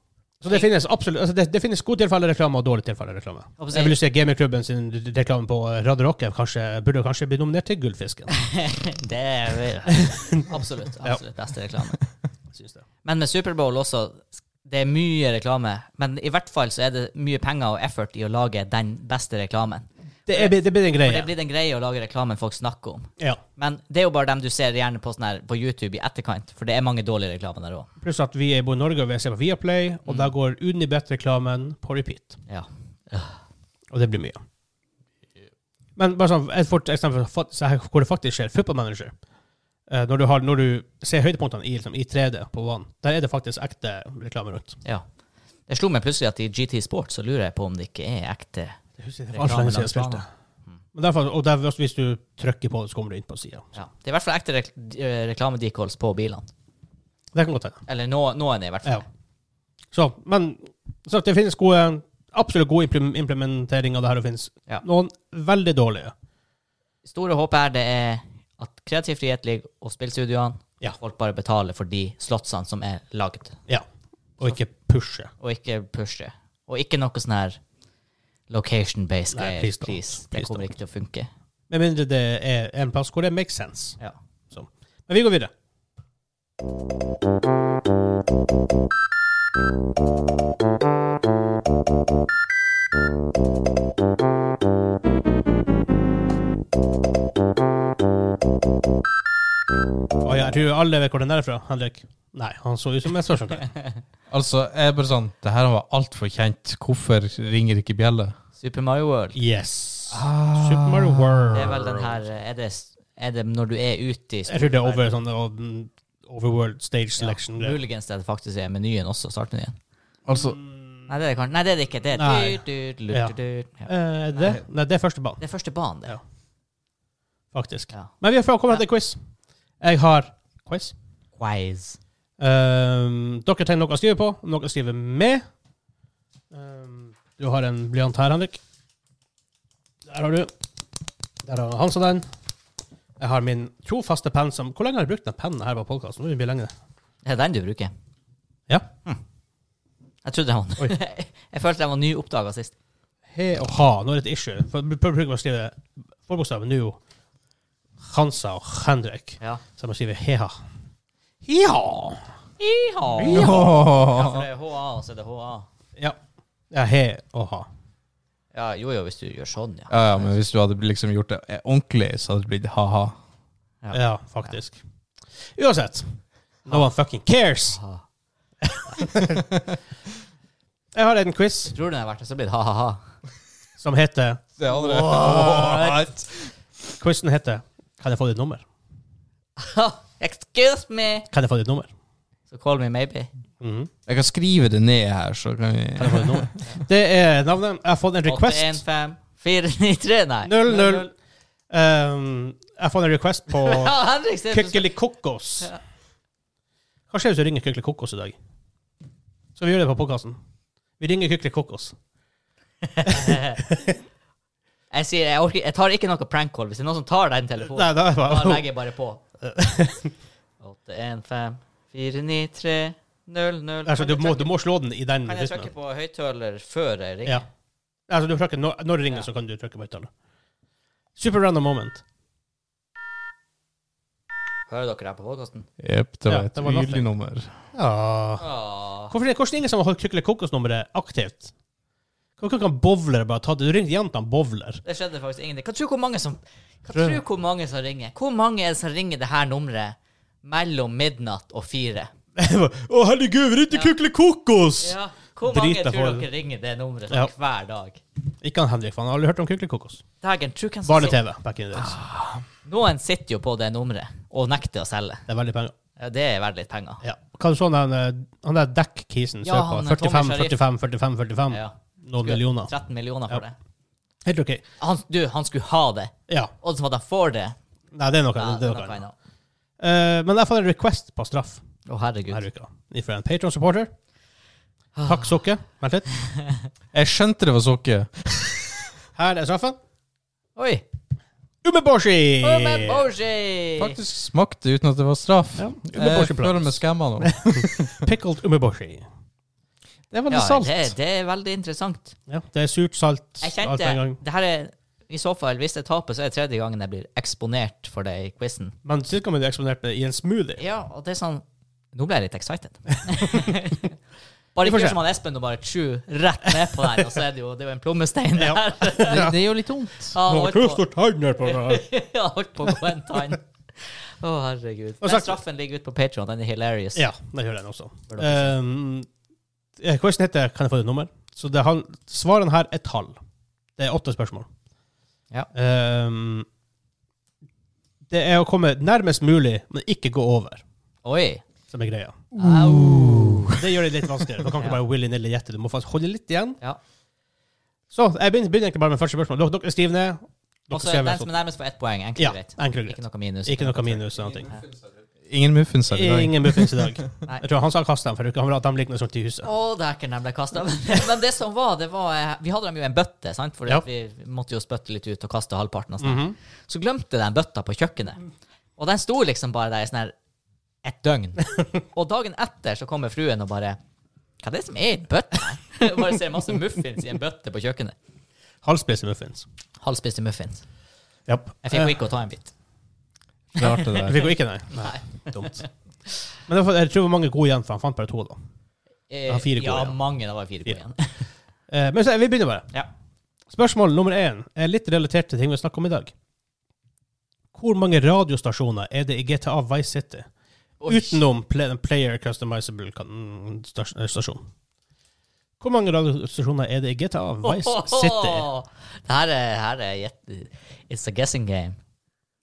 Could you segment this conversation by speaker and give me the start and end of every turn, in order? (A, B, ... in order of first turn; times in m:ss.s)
0:00.4-0:08.3 A
0:03.6-0:04.0 B
0:08.3-0:12.0 B
0:10.0-0:10.5 A
0:12.5-0:12.8 A
0:13.0-0:27.9 B
0:20.3-0:21.3 A
0:28.0-0:32.4 A
0:30.1-0:30.3 B
0:32.5-0:33.4 B
0:33.9-0:34.4 A
0:36.0-0:39.1 A
0:39.9-0:44.8 A
0:45.7-0:48.8 B
0:49.0-0:50.2 A
0:49.3-0:50.2 B
0:50.9-0:53.7 A
0:53.7-0:56.5 B
0:57.3-0:57.8 A
0:57.9-0:59.0 B
0:59.9-1:06.1 A
1:07.0-1:13.6 B
1:14.4-1:15.3 A
1:15.4-1:17.6 B
1:18.5-1:21.3 B
1:19.3-1:20.7 A
1:21.7-1:24.0 A
1:24.5-1:25.5 A
1:40.2-1:43.7 A
1:44.3-1:48.3 C
1:48.6-1:49.4 B
1:49.3-1:52.2 A
1:50.1-1:51.6 C
1:51.5-1:55.0 B
1:54.5-1:57.8 A
1:57.2-1:59.8 B
2:00.3-2:00.6 C
2:00.3-2:01.1 A
2:01.1-2:04.6 B
2:02.2-2:03.3 A
2:03.8-2:05.4 A
2:05.4-2:06.2 B
2:07.5-2:09.2 A
2:09.8-2:10.9 A
2:11.4-2:12.0 B
2:12.4-2:15.4 A
2:16.5-2:18.6 A
2:20.1-2:20.5 A
2:21.4-2:22.2 A
2:23.2-2:26.7 A
2:27.2-2:27.9 B
2:30.2-2:32.7 B
2:33.3-2:37.0 A
2:38.0-2:40.5 A
2:41.4-2:42.2 A
2:42.6-2:45.7 B
2:43.2-2:43.7 A
2:43.2-2:44.4 C
2:46.7-2:47.7 A
2:48.5-2:50.3 B
2:49.9-2:53.1 C
2:53.8-2:54.5 B
2:53.9-2:54.8 A
2:55.6-2:57.8 A
2:57.8-2:58.0 B
2:58.6-2:59.5 A
3:00.9-3:01.7 A
3:01.7-3:03.0 B
3:03.8-3:04.5 A
3:04.6-3:06.3 C
3:04.7-3:06.1 B
3:05.0-3:05.8 A
3:07.0-3:08.6 A
3:09.6-3:11.3 B
3:11.3-3:11.9 A
3:12.5-3:13.3 B
3:13.6-3:13.9 A
3:14.1-3:16.5 C
3:16.0-3:18.8 A
3:18.2-3:21.1 B
3:20.4-3:21.1 A
3:21.7-3:24.0 A
3:23.5-3:24.9 B
3:24.5-3:25.7 A
3:27.1-3:28.4 A
3:29.6-3:30.4 A
3:31.0-3:31.9 A
3:32.8-3:33.6 B
3:33.1-3:33.9 A
3:34.9-3:39.2 B
3:37.6-3:38.7 A
3:39.4-3:40.1 A
3:40.6-3:44.5 B
3:43.8-3:45.7 A
3:45.2-3:47.4 B
3:48.1-3:50.1 A
3:51.2-3:52.0 A
3:54.7-3:55.7 B
3:55.8-3:57.5 C
3:56.3-3:57.1 A
3:57.7-3:58.4 A
3:58.4-3:59.1 B
3:59.1-4:01.5 A
4:02.4-4:04.8 A
4:04.8-4:12.1 B
4:06.9-4:07.2 A
4:12.4-4:16.2 A
4:14.8-4:18.0 B
4:18.4-4:20.0 A
4:20.2-4:21.2 B
4:20.8-4:22.0 A
4:21.8-4:22.1 B
4:22.6-4:25.2 B
4:25.3-4:25.7 A
4:26.0-4:27.0 B
4:27.0-4:32.7 A
4:29.4-4:30.6 B
4:31.5-4:33.5 B
4:34.2-4:34.6 A
4:34.8-4:37.6 B
4:37.9-4:39.0 A
4:38.3-4:39.1 B
4:39.8-4:41.6 A
4:41.9-4:42.4 B
4:42.3-4:43.9 A
4:45.0-4:45.3 B
4:45.0-4:46.1 A
4:46.9-4:48.7 C
4:49.2-4:49.8 A
4:50.6-4:50.8 B
4:51.6-4:53.1 A
4:52.4-4:54.0 B
4:53.8-4:58.1 C
4:55.6-4:59.0 A
5:00.1-5:00.9 A
5:00.3-5:02.1 B
5:02.3-5:04.2 A
5:03.4-5:08.7 B
5:08.8-5:10.6 A
5:10.6-5:13.9 B
5:14.5-5:19.3 B
5:14.6-5:15.0 A
5:18.4-5:19.4 A
5:19.1-5:20.1 C
5:20.1-5:20.8 B
5:20.2-5:21.8 A
5:21.4-5:27.0 B
5:25.0-5:25.4 A
5:27.0-5:29.1 A
5:28.1-5:28.5 B
5:29.8-5:33.2 A
5:33.8-5:34.5 A
5:35.5-5:36.4 A
5:38.1-5:40.6 A
5:41.0-5:41.4 B
5:41.7-5:42.3 A
5:42.4-5:43.5 C
5:42.4-5:43.6 B
5:43.5-5:46.6 A
5:47.9-5:51.3 A
5:50.7-5:54.6 B
5:52.2-5:54.5 A
5:55.2-5:57.0 C
5:55.9-5:59.5 A
5:59.4-6:08.2 B
6:06.0-6:06.4 A
6:08.8-6:10.1 B
6:10.8-6:13.8 B
6:14.4-6:17.9 B
6:18.6-6:19.4 A
6:19.8-6:20.6 B
6:21.3-6:22.0 A
6:21.6-6:22.5 B
6:23.5-6:24.3 C
6:23.6-6:25.6 B
6:24.0-6:25.6 A
6:26.5-6:28.4 A
6:29.1-6:31.2 B
6:29.3-6:30.0 A
6:31.7-6:32.7 A
6:33.5-6:36.1 A
6:37.5-6:40.2 A
6:40.8-6:41.2 B
6:40.9-6:44.4 A
6:45.6-6:48.5 A
6:47.4-6:51.8 B